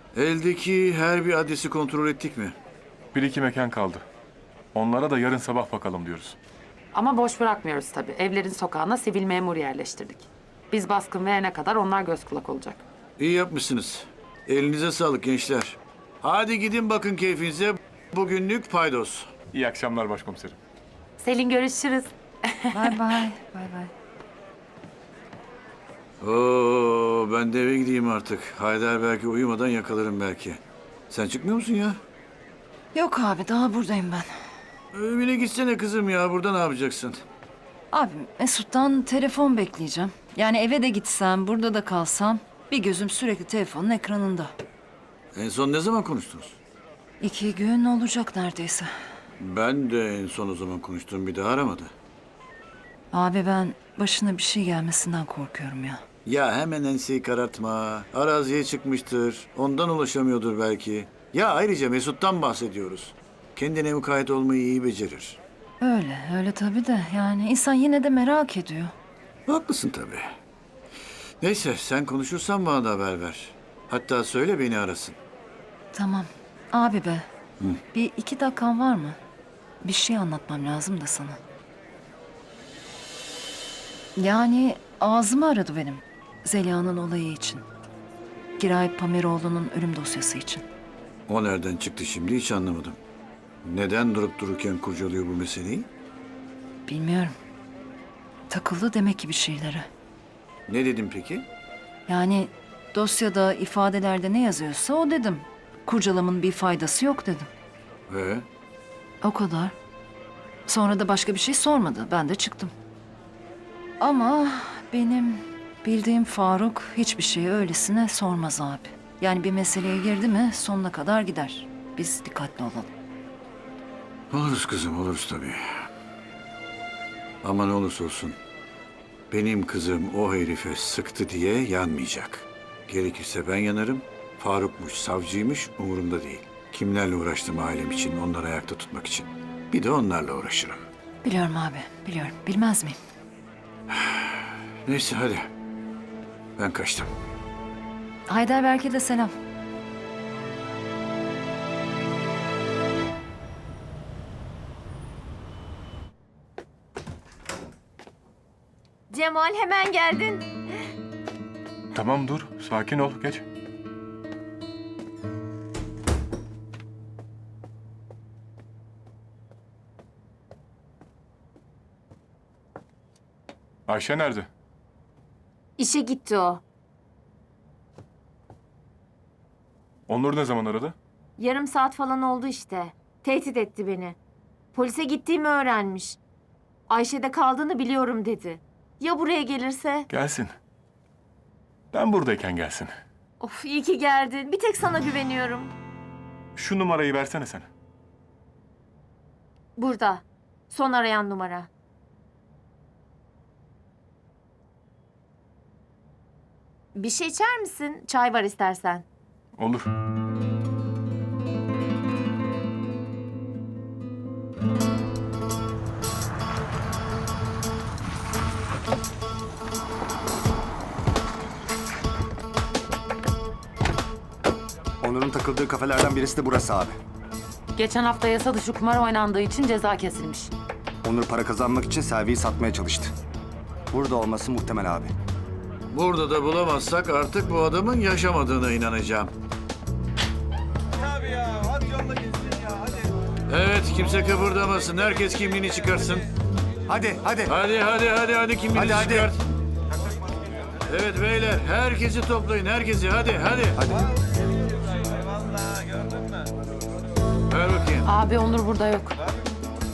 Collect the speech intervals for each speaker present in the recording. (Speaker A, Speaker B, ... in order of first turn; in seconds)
Speaker A: 0.1-2.5, 13.2-19.3, 26.2-32.0, 34.9-37.2, 45.3-46.5, 49.4-51.9, 56.2-65.4, 69.5-70.2, 71.4-75.2, 91.3-93.0, 93.6-95.9, 100.7-101.5, 108.1-108.5, 124.3-125.6, 127.4-128.4, 129.3-140.8, 143.9-145.5, 146.6-147.1, 235.9-239.3, 243.5-246.2, 247.4-249.4, 250.9-253.8, 257.5-258.1
Speaker B: 3.1-4.0, 4.7-6.4, 19.5-20.6, 161.9-163.4, 173.9-174.5, 180.1-180.9, 190.1-190.5, 191.9-192.9, 196.6-197.7, 209.6-209.9
Speaker C: 6.9-12.8, 21.2-22.9, 227.8-230.5, 258.1-259.2
Speaker D: 22.7-23.9, 32.9-34.3, 37.9-44.5, 47.2-48.9, 53.1-56.0, 65.8-68.9, 75.9-77.3, 77.9-79.2, 79.8-81.4, 84.2-87.6, 88.6-90.6, 96.9-97.3, 98.5-99.9, 102.1-107.5, 109.2-109.7, 110.7-112.7, 114.0-122.9, 141.2-143.0, 148.3-149.3
Speaker E: 159.1-160.5, 175.8-176.6, 181.4-184.2, 184.7-186.2, 186.9-190.1, 193.4-195.7, 199.8-201.7, 206.9-209.0
Speaker F: 225.0-226.9, 231.0-233.1, 233.9-235.1, 246.9-247.5, 248.7-249.3, 253.8-254.0